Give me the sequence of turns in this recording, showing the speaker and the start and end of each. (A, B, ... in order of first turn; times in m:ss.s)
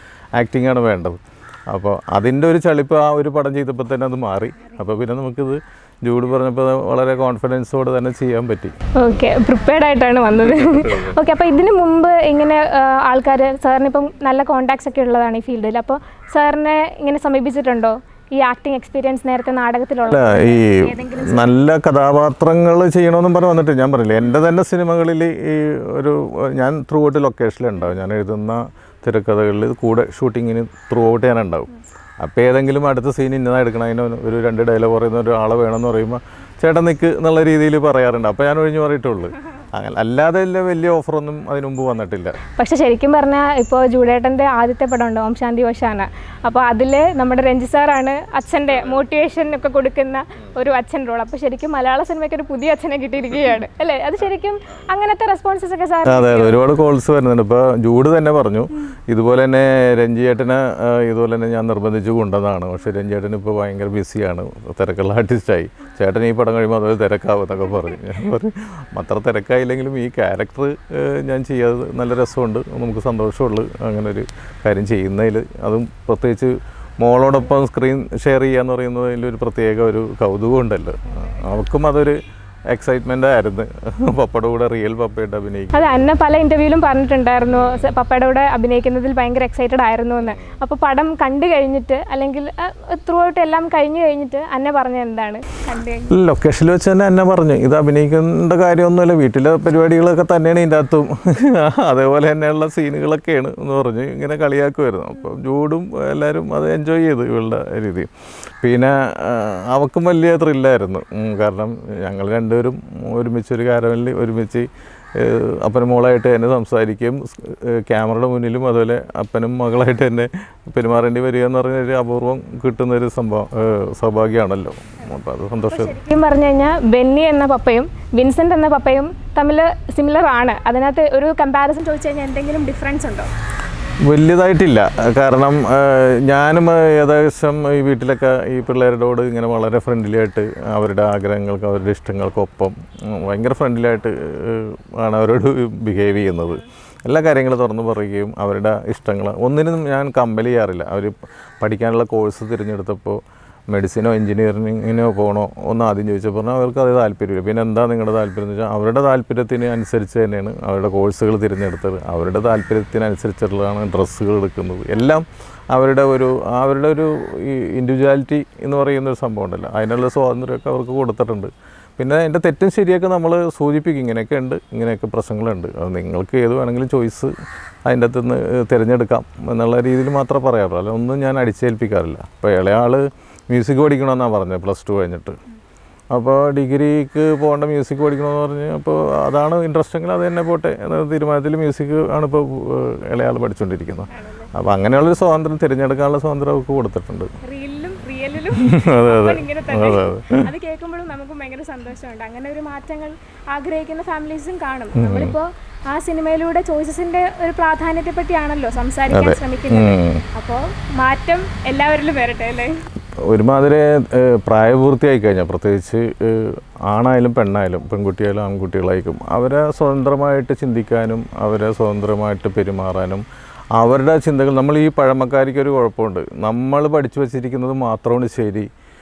0:00.4-0:08.7 A
0:09.0-0:21.5 B
0:10.5-0:11.1 A
0:20.1-0:42.4 A
0:42.6-0:56.6 B
0:56.0-1:22.2 A
1:22.7-1:26.1 A
1:25.7-1:36.2 B
1:27.5-1:27.8 A
1:36.1-1:48.1 A
1:48.6-2:06.0 A
2:05.7-2:13.3 B
2:14.0-2:57.3 A
2:57.8-3:05.4 A
3:06.1-3:17.3 A
3:14.1-3:14.5 B
3:17.4-3:32.8 B
3:18.5-3:20.5 A
3:25.0-3:25.4 A
3:29.1-3:30.2 A
3:33.2-3:43.2 A
3:43.8-3:48.7 A